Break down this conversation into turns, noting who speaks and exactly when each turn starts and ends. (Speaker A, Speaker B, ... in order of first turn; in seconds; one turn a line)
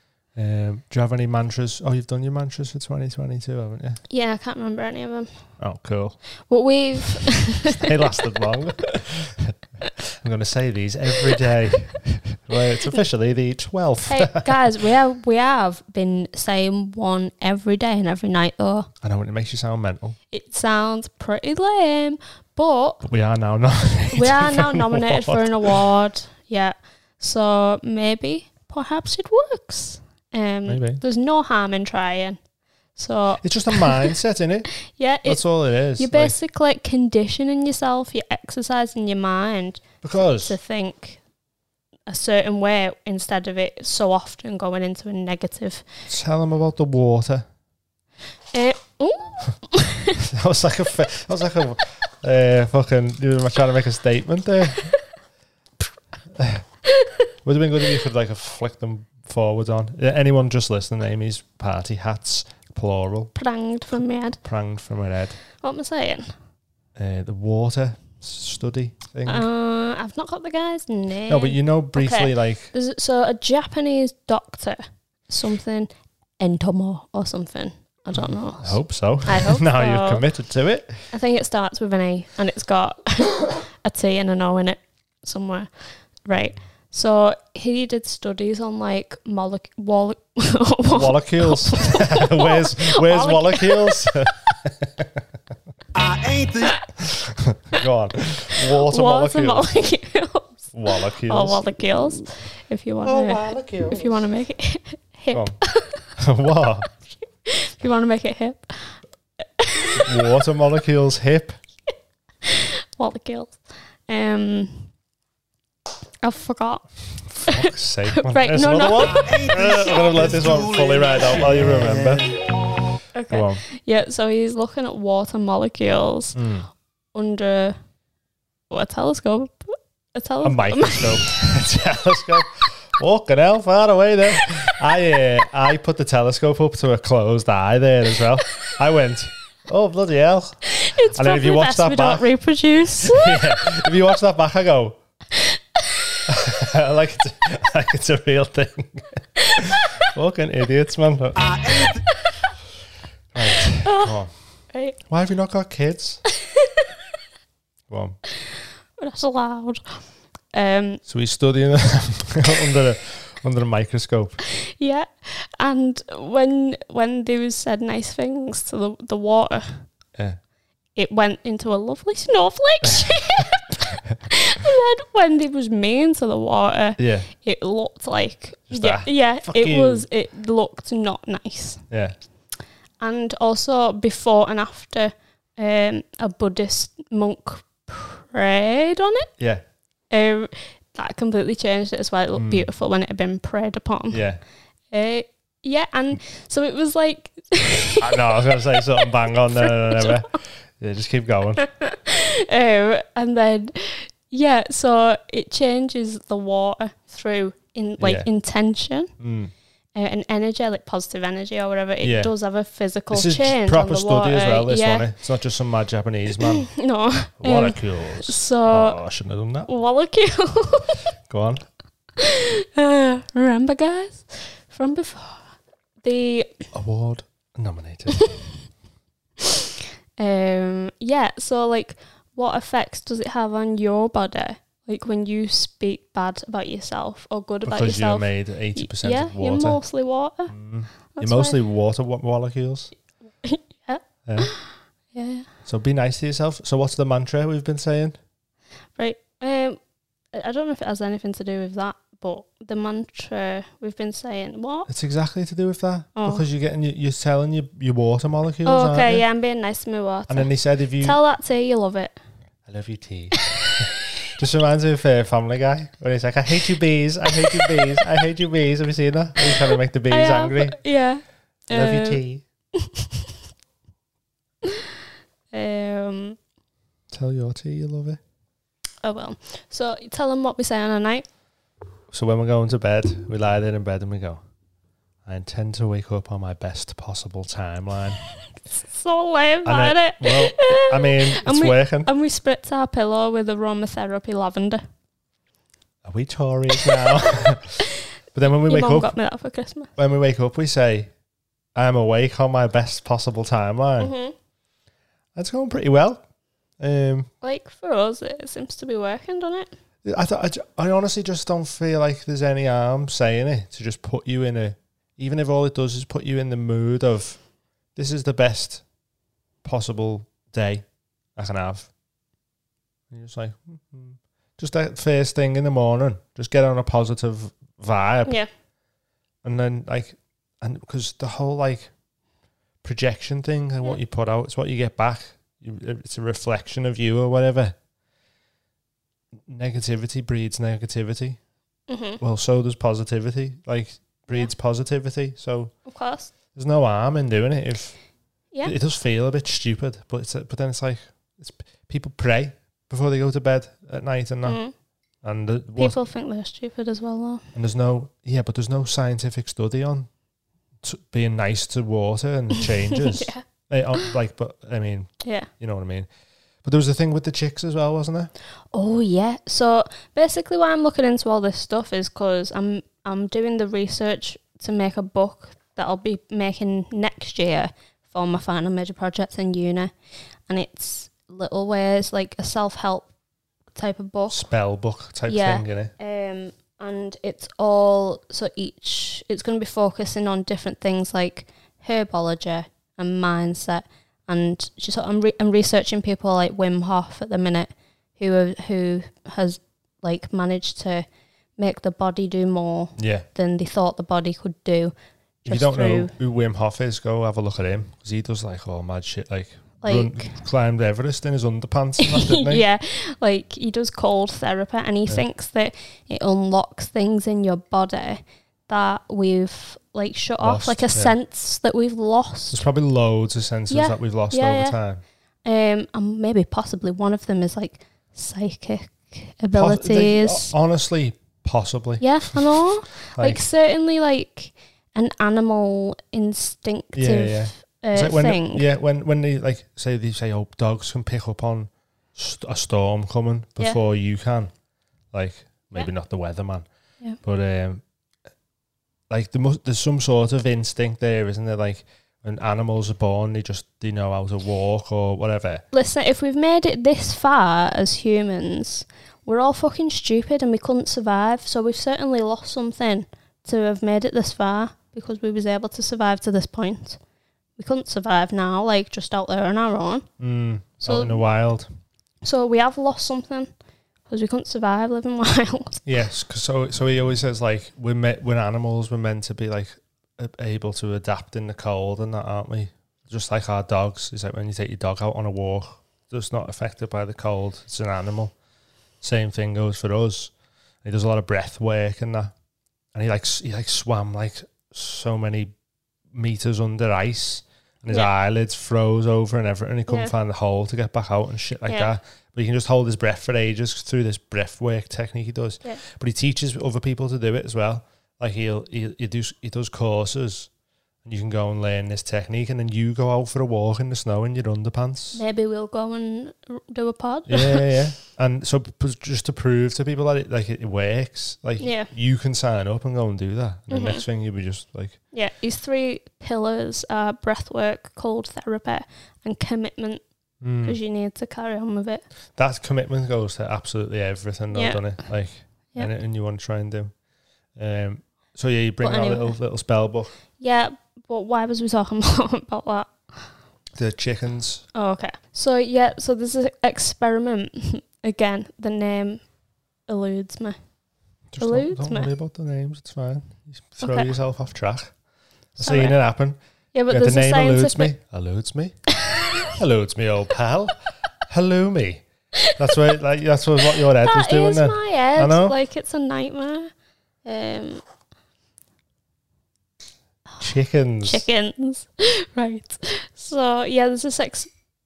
Speaker A: 0.3-4.0
Speaker B: 4.1-5.6
Speaker A: 5.6-6.4
Speaker B: 6.5-7.9
Speaker A: 7.7-9.5
Speaker A: 10.2-14.5
Speaker B: 14.1-18.9
Speaker A: 19.0-20.2
Speaker B: 20.3-23.0
Speaker A: 23.0-25.8
Speaker B: 24.1-32.4
Speaker A: 30.6-31.0
Speaker B: 33.0-34.1
Speaker A: 33.4-36.4
Speaker B: 34.9-41.2
Speaker A: 40.0-40.6
Speaker B: 42.1-45.8
Speaker A: 46.1-47.5
Speaker B: 48.5-50.1
Speaker A: 50.2-54.9
Speaker A: 56.4-56.6
Speaker A: 57.4-63.3
Speaker B: 63.3-64.4
Speaker A: 64.4-65.4
Speaker B: 65.6-66.3
Speaker A: 67.0-69.5
Speaker B: 69.2-80.2
Speaker A: 71.3-72.7
Speaker A: 78.1-81.0
Speaker B: 81.1-94.1
Speaker A: 90.9-95.1
Speaker C: 95.9-96.8
Speaker A: 97.2-99.7
Speaker B: 98.7-100.7
Speaker A: 100.7-101.6
Speaker B: 101.2-106.1
Speaker A: 103.0-104.2
Speaker A: 105.3-106.9
Speaker B: 107.2-109.0
Speaker B: 109.6-110.1
Speaker A: 110.0-111.6
Speaker B: 112.5-114.9
Speaker B: 116.2-119.3
Speaker A: 117.3-122.3
Speaker C: 118.9-122.3
Speaker B: 123.1-126.4
Speaker A: 123.3-123.6
Speaker A: 126.3-126.7
Speaker B: 127.1-127.8
Speaker B: 128.7-131.3
Speaker A: 130.4-142.3
Speaker B: 140.7-143.7
Speaker A: 143.0-145.0
Speaker A: 146.3-151.6
Speaker C: 151.3-152.1
Speaker A: 153.3-156.2
Speaker B: 153.8-154.1
Speaker B: 154.7-155.0
Speaker A: 157.9-158.2
Speaker B: 159.0-161.0
Speaker A: 161.0-164.4
Speaker B: 164.7-169.9
Speaker B: 170.9-181.8
Speaker A: 177.0-177.3
Speaker A: 178.7-180.1
Speaker A: 181.9-182.2
Speaker B: 183.0-189.3
Speaker A: 189.4-189.6
Speaker B: 190.1-194.2
Speaker A: 192.3-192.7
Speaker A: 194.1-194.4
Speaker B: 194.9-200.2
Speaker A: 198.0-201.6
Speaker B: 201.8-209.1
Speaker A: 208.0-208.3
Speaker A: 209.2-209.5
Speaker B: 209.9-215.1
Speaker A: 212.0-212.3
Speaker A: 213.1-216.7
Speaker B: 216.7-219.0
Speaker A: 217.4-219.7
Speaker B: 219.7-220.9
Speaker A: 221.2-221.6
Speaker B: 222.2-225.5
Speaker B: 226.0-226.6
Speaker A: 226.7-228.3
Speaker B: 230.2-240.5
Speaker A: 237.6-239.8
Speaker A: 240.5-242.9
Speaker B: 241.1-241.6
Speaker B: 243.4-245.5
Speaker A: 244.2-244.5
Speaker A: 245.6-248.2
Speaker B: 248.9-249.8
Speaker B: 250.3-254.9
Speaker A: 254.9-259.2
Speaker B: 256.1-256.4
Speaker B: 258.6-262.2
Speaker A: 260.3-261.2
Speaker A: 262.7-263.8
Speaker A: 264.3-270.8
Speaker B: 270.1-272.2
Speaker A: 271.7-272.4
Speaker B: 275.5-276.4
Speaker A: 277.1-278.2
Speaker B: 279.0-281.2
Speaker A: 282.1-284.4
Speaker A: 285.2-288.2
Speaker B: 288.8-294.8
Speaker A: 289.6-292.1
Speaker A: 296.0-297.8
Speaker A: 298.3-299.2
Speaker B: 298.4-299.9
Speaker A: 299.9-301.1
Speaker A: 301.7-304.1
Speaker B: 304.0-304.3
Speaker A: 305.3-306.2
Speaker A: 306.8-307.3
Speaker B: 307.4-309.7
Speaker A: 310.0-317.4
Speaker A: 317.9-318.8
Speaker A: 319.6-321.9
Speaker A: 323.1-328.4
Speaker A: 329.4-331.9
Speaker A: 332.8-337.8
Speaker A: 339.4-341.4
Speaker B: 341.9-342.2
Speaker A: 342.2-345.7
Speaker B: 345.9-346.3
Speaker A: 346.5-348.0
Speaker A: 348.6-354.6
Speaker B: 354.4-354.7
Speaker A: 355.2-356.0
Speaker B: 355.8-357.4
Speaker A: 357.5-360.1
Speaker A: 360.8-366.1
Speaker B: 363.0-363.4
Speaker B: 365.2-365.5
Speaker A: 366.6-368.3
Speaker B: 368.7-379.9
Speaker B: 380.5-383.1
Speaker B: 383.7-384.4
Speaker A: 384.3-385.9
Speaker B: 385.3-401.1
Speaker B: 401.6-404.9
Speaker A: 403.0-403.2
Speaker B: 405.4-406.1
Speaker A: 405.4-412.6
Speaker B: 409.8-410.4
Speaker B: 412.0-422.6
Speaker A: 420.4-421.2
Speaker A: 422.5-425.0
Speaker B: 423.7-424.8
Speaker B: 425.4-430.5
Speaker A: 429.5-432.6
Speaker B: 432.0-438.6
Speaker A: 433.1-433.4
Speaker A: 436.9-444.5
Speaker A: 445.1-446.6
Speaker A: 447.2-447.8
Speaker A: 449.1-455.6
Speaker B: 455.7-467.0
Speaker B: 467.6-470.1
Speaker A: 470.2-471.7
Speaker B: 470.8-471.2
Speaker B: 472.2-473.5
Speaker B: 474.1-475.8
Speaker A: 475.8-488.3
Speaker A: 489.0-490.3
Speaker A: 490.8-492.3
Speaker A: 492.9-495.5
Speaker A: 496.1-510.5
Speaker B: 499.9-500.1
Speaker B: 501.7-501.9
Speaker A: 511.0-515.2
Speaker B: 515.1-517.6
Speaker A: 517.3-525.0
Speaker B: 521.6-521.9
Speaker B: 523.7-524.0
Speaker B: 525.1-530.0
Speaker A: 530.4-530.8
Speaker B: 530.6-532.0
Speaker A: 532.4-536.9
Speaker B: 534.5-535.0
Speaker A: 537.5-540.1
Speaker B: 538.8-539.4
Speaker B: 540.4-543.3
Speaker A: 543.7-544.6
Speaker B: 544.7-549.2
Speaker B: 549.9-550.6
Speaker A: 551.3-555.0
Speaker B: 551.4-552.1
Speaker B: 553.8-554.1
Speaker A: 555.5-556.4
Speaker B: 555.6-556.0
Speaker B: 556.7-557.9
Speaker A: 556.9-558.9
Speaker A: 559.5-565.6
Speaker B: 563.7-566.7
Speaker B: 567.2-567.8
Speaker A: 570.4-571.2
Speaker B: 571.0-574.5